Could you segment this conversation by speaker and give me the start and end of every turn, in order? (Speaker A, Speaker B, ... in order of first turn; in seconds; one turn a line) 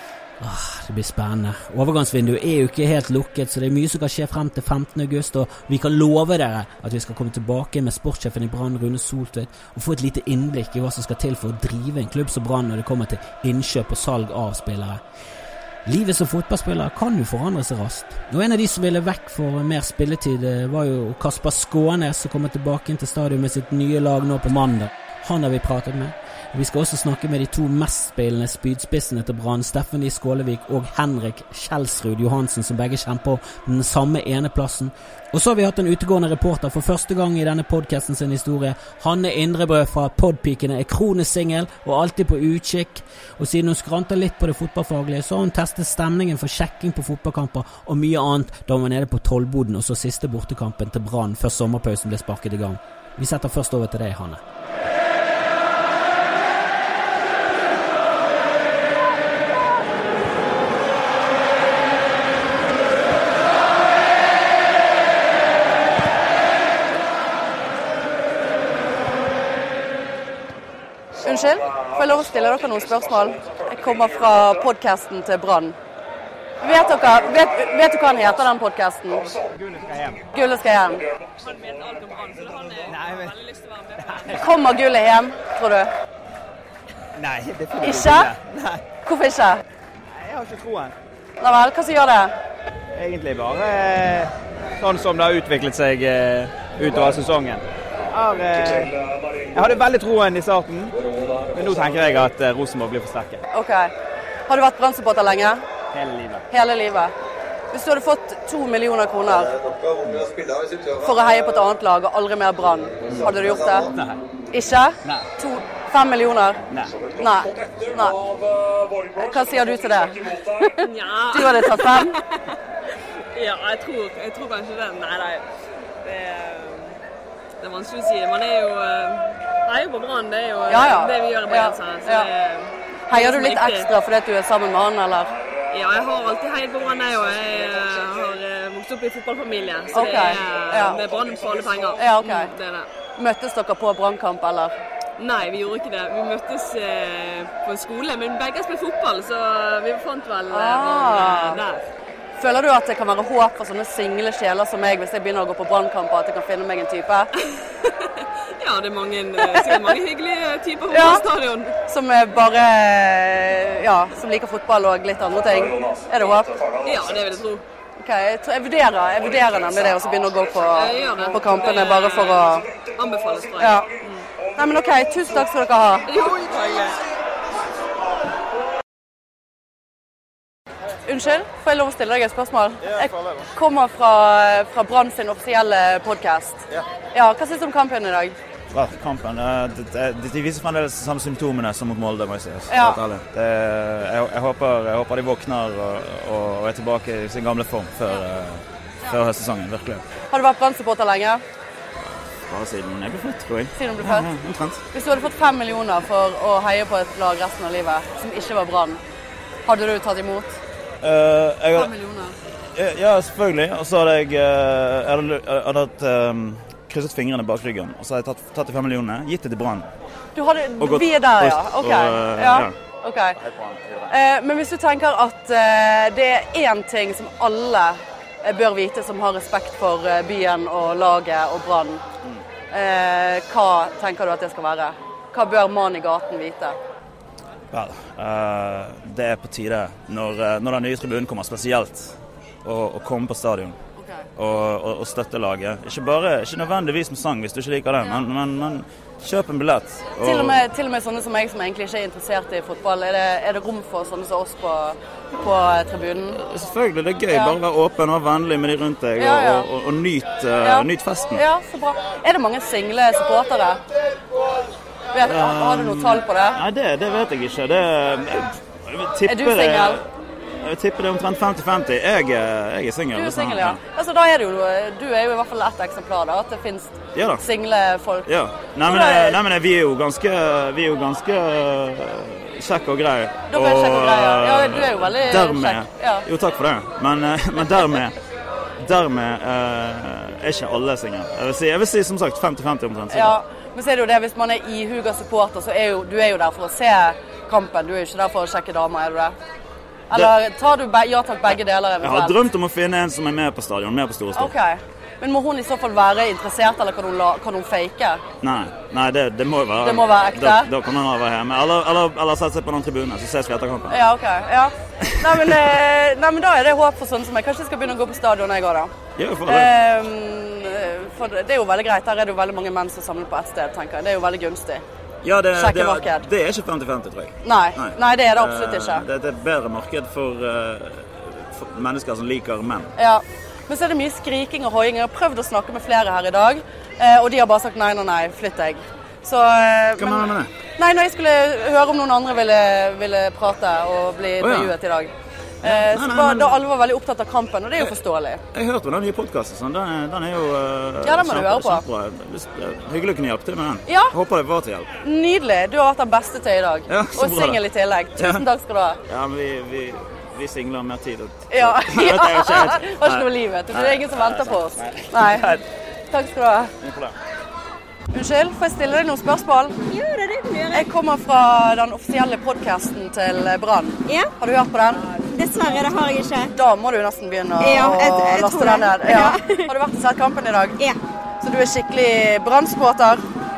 Speaker A: 0.4-15.0
Speaker A: 15.8-54.4
Speaker B: 71.2-75.8
Speaker B: 76.6-79.3
Speaker C: 79.5-80.2
Speaker B: 80.3-81.0
Speaker D: 81.4-84.5
Speaker C: 82.9-83.3
Speaker C: 84.0-84.4
Speaker B: 84.3-85.9
Speaker C: 87.2-88.8
Speaker B: 87.8-88.3
Speaker B: 89.0-89.6
Speaker C: 90.1-90.9
Speaker B: 91.4-92.3
Speaker C: 92.9-98.9
Speaker C: 99.5-101.0
Speaker C: 101.5-103.4
Speaker B: 103.5-103.9
Speaker B: 104.5-105.6
Speaker C: 105.9-106.4
Speaker B: 106.5-107.1
Speaker B: 107.7-109.6
Speaker B: 110.9-113.9
Speaker C: 113.9-114.2
Speaker B: 114.5-118.2
Speaker C: 116.7-117.0
Speaker B: 119.2-122.2
Speaker D: 120.8-122.4
Speaker D: 123.3-125.5
Speaker D: 126.0-127.0
Speaker D: 127.6-133.9
Speaker B: 130.7-132.3
Speaker B: 133.1-135.3
Speaker D: 135.7-142.9
Speaker B: 139.9-141.0
Speaker B: 142.0-142.5
Speaker B: 143.2-144.7
Speaker D: 145.2-151.9
Speaker B: 150.5-151.6
Speaker B: 152.4-157.3
Speaker D: 157.6-161.7
Speaker B: 159.4-159.8
Speaker B: 160.9-161.2
Speaker B: 161.9-166.6
Speaker D: 166.8-167.6
Speaker B: 168.0-172.7
Speaker D: 170.7-174.2
Speaker B: 173.6-174.0
Speaker B: 174.6-176.1
Speaker D: 176.1-177.0
Speaker B: 181.1-188.4
Speaker E: 182.8-183.5
Speaker E: 188.7-200.0
Speaker B: 192.7-193.0
Speaker B: 200.3-201.4
Speaker E: 202.3-204.8
Speaker B: 203.7-204.3
Speaker B: 204.9-209.0
Speaker B: 209.6-210.6
Speaker E: 211.0-211.9
Speaker B: 211.7-212.3
Speaker E: 212.7-219.9
Speaker B: 220.3-223.3
Speaker E: 220.8-222.8
Speaker E: 223.3-224.1
Speaker B: 224.1-232.1
Speaker B: 232.7-236.8
Speaker E: 237.7-243.8
Speaker B: 244.0-244.2
Speaker E: 244.3-250.6
Speaker B: 250.2-256.4
Speaker E: 256.3-261.4
Speaker B: 257.3-257.6
Speaker B: 259.2-259.7
Speaker B: 260.6-263.8
Speaker B: 265.1-266.6
Speaker E: 265.2-270.0
Speaker B: 269.3-270.0
Speaker E: 270.6-273.8
Speaker B: 273.1-278.3
Speaker E: 277.1-277.4
Speaker E: 278.2-288.1
Speaker B: 278.8-279.4
Speaker B: 283.5-286.2
Speaker E: 288.8-293.4
Speaker B: 293.1-299.3
Speaker B: 300.1-302.4
Speaker E: 301.5-304.5
Speaker B: 304.3-308.2
Speaker E: 308.4-314.0
Speaker B: 309.8-310.7
Speaker B: 313.9-318.9
Speaker E: 315.2-315.5
Speaker E: 319.2-319.7
Speaker B: 319.4-324.8
Speaker E: 325.2-332.9
Speaker B: 325.5-326.2
Speaker B: 327.4-329.1
Speaker B: 332.9-340.2
Speaker E: 340.0-340.5
Speaker B: 340.8-345.1
Speaker E: 344.4-344.7
Speaker E: 345.6-346.6
Speaker B: 345.6-348.4
Speaker E: 348.5-354.9
Speaker B: 351.0-351.8
Speaker B: 353.9-354.1
Speaker B: 355.0-359.0
Speaker E: 356.9-357.6
Speaker E: 358.2-358.4
Speaker E: 359.1-365.6
Speaker B: 361.5-365.5
Speaker B: 366.1-366.7
Speaker E: 366.8-367.1
Speaker B: 368.1-369.8
Speaker F: 369.9-370.9
Speaker B: 370.7-375.0
Speaker F: 374.1-374.3
Speaker F: 375.3-376.5
Speaker B: 376.5-380.8
Speaker F: 377.6-379.7
Speaker B: 381.4-383.2